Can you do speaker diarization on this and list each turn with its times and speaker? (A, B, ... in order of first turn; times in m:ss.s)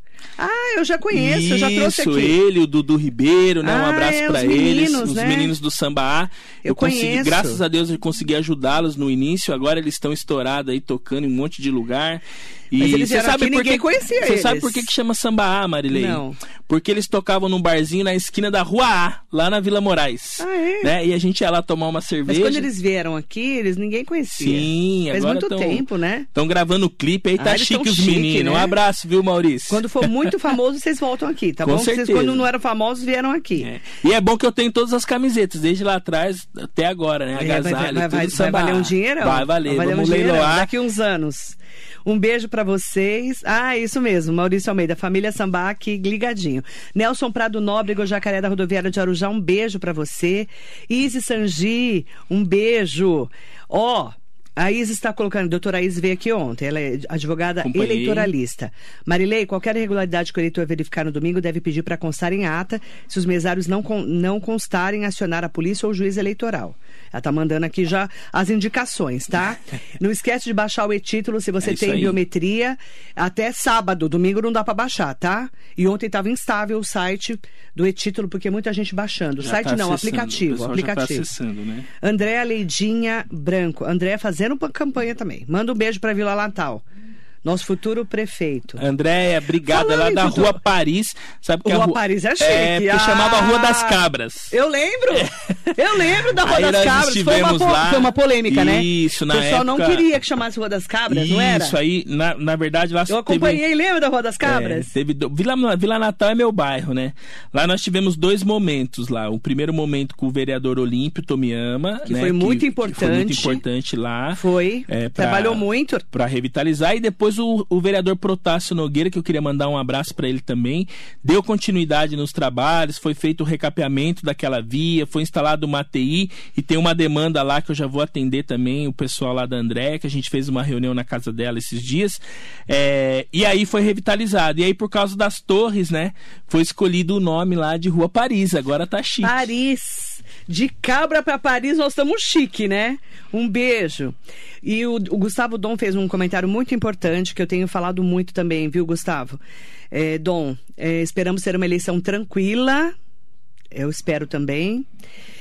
0:00.4-0:02.4 A
0:01.1-0:22.7 B
0:03.6-0:05.5 A
0:06.6-0:07.6 A
0:12.8-0:14.9 A
0:15.9-0:16.4 A
0:20.4-0:20.9 A
0:22.3-0:26.3 A
0:24.3-0:30.3 B
0:27.4-0:28.8 A
0:29.7-0:33.7 A
0:31.6-0:32.4 B
0:33.6-0:40.7 B
0:37.4-1:21.3 A
0:57.6-0:58.3 B
1:11.6-1:12.2 B
1:19.4-1:21.9 B
1:22.0-1:26.8 A
1:27.4-1:28.8 A
1:28.8-1:34.5 B
1:29.6-1:30.6 A
1:31.6-1:41.8 A
1:35.1-1:40.0 B
1:41.1-1:43.6 B
1:43.1-1:44.9 A
1:44.4-2:19.5 B
1:52.0-1:53.6 A
1:54.3-1:56.0 A
2:19.2-2:32.9 A
2:33.7-2:34.9 A